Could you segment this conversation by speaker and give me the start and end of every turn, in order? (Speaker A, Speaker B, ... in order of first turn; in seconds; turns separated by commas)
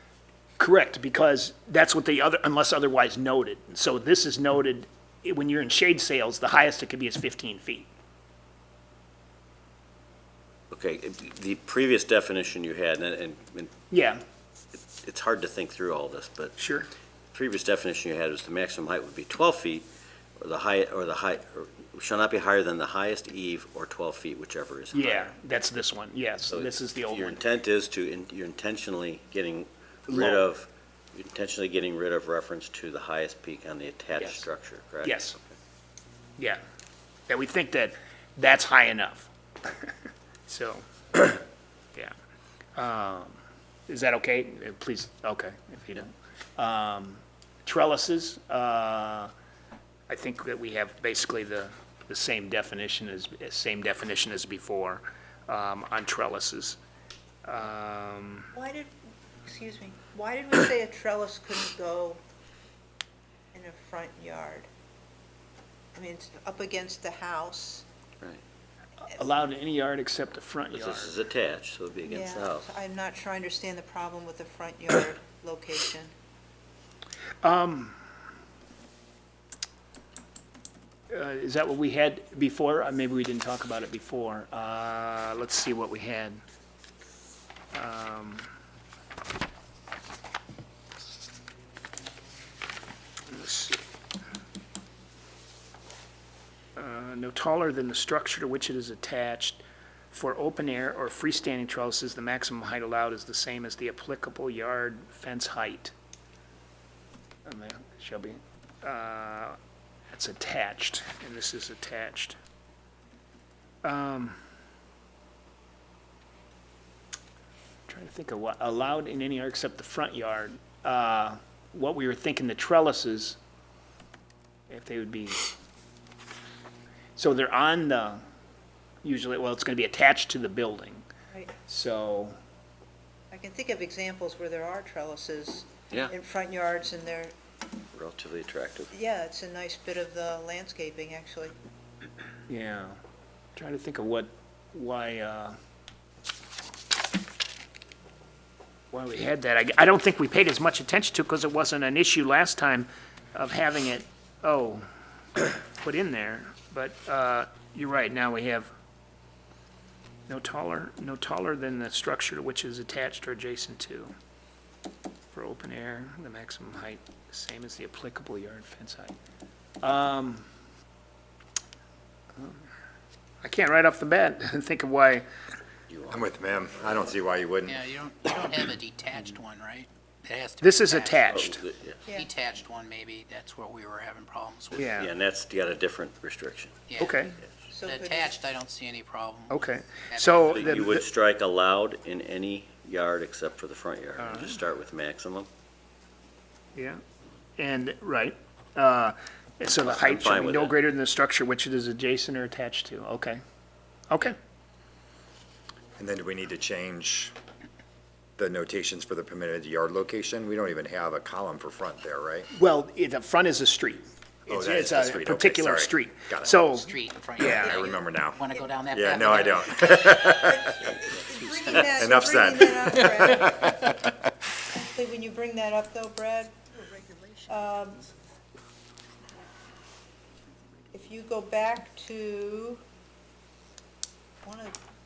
Speaker A: 0.6-7.9, Speaker B: 10.7-13.7, Speaker A: 13.9-14.2, Speaker B: 14.8-16.6, Speaker A: 16.6-16.9, Speaker B: 17.3-19.9, Speaker B: 20.4-25.3, Speaker A: 24.9-27.4, Speaker B: 26.5-35.5, Speaker A: 30.1-30.5, Speaker A: 35.0-35.4, Speaker A: 37.3-39.9, Speaker A: 40.5-41.4, Speaker A: 42.8-49.3, Speaker A: 50.1-56.8, Speaker A: 57.5-58.5, Speaker C: 58.5-58.9, Speaker C: 59.5-62.2, Speaker C: 63.5-64.7, Speaker C: 65.9-67.8, Speaker A: 69.1-71.1, Speaker B: 70.7-72.7, Speaker C: 72.1-76.1, Speaker A: 77.4-78.0, Speaker A: 81.1-86.4, Speaker A: 87.7-88.5, Speaker A: 93.3-93.8, Speaker A: 96.8-99.6, Speaker A: 100.1-105.9, Speaker A: 107.5-109.6, Speaker A: 110.1-112.4, Speaker A: 113.8-114.4, Speaker A: 117.9-123.4, Speaker A: 124.7-125.5, Speaker A: 127.2-128.2, Speaker A: 129.0-131.1, Speaker A: 131.7-132.3, Speaker C: 133.3-137.3, Speaker B: 137.9-138.9, Speaker C: 138.9-141.6, Speaker A: 142.5-143.0, Speaker A: 143.6-145.6, Speaker A: 148.9-154.8, Speaker A: 155.4-158.7, Speaker A: 160.3-164.1, Speaker A: 165.3-169.1, Speaker A: 169.8-170.5, Speaker A: 173.4-175.2, Speaker B: 175.9-176.3, Speaker D: 176.1-177.8, Speaker E: 177.7-181.4, Speaker A: 180.6-181.6, Speaker B: 181.3-182.0, Speaker E: 182.1-184.9, Speaker A: 184.8-185.1, Speaker B: 185.0-186.9, Speaker E: 186.9-187.2, Speaker A: 187.0-187.4, Speaker C: 187.7-188.4, Speaker E: 187.8-190.6, Speaker A: 189.5-191.0, Speaker B: 190.4-195.5, Speaker A: 194.2-194.6, Speaker A: 196.8-197.0, Speaker A: 197.6-203.4, Speaker B: 199.8-200.8, Speaker A: 204.1-204.4, Speaker D: 206.0-207.3, Speaker D: 208.4-212.5, Speaker A: 212.6-217.8, Speaker D: 214.5-216.6, Speaker E: 216.4-222.0, Speaker D: 217.4-218.4, Speaker C: 217.6-217.9, Speaker D: 218.9-220.9, Speaker C: 220.3-223.8, Speaker D: 222.0-223.7, Speaker C: 224.7-226.5, Speaker C: 227.5-228.1, Speaker C: 230.9-232.8, Speaker C: 234.4-234.8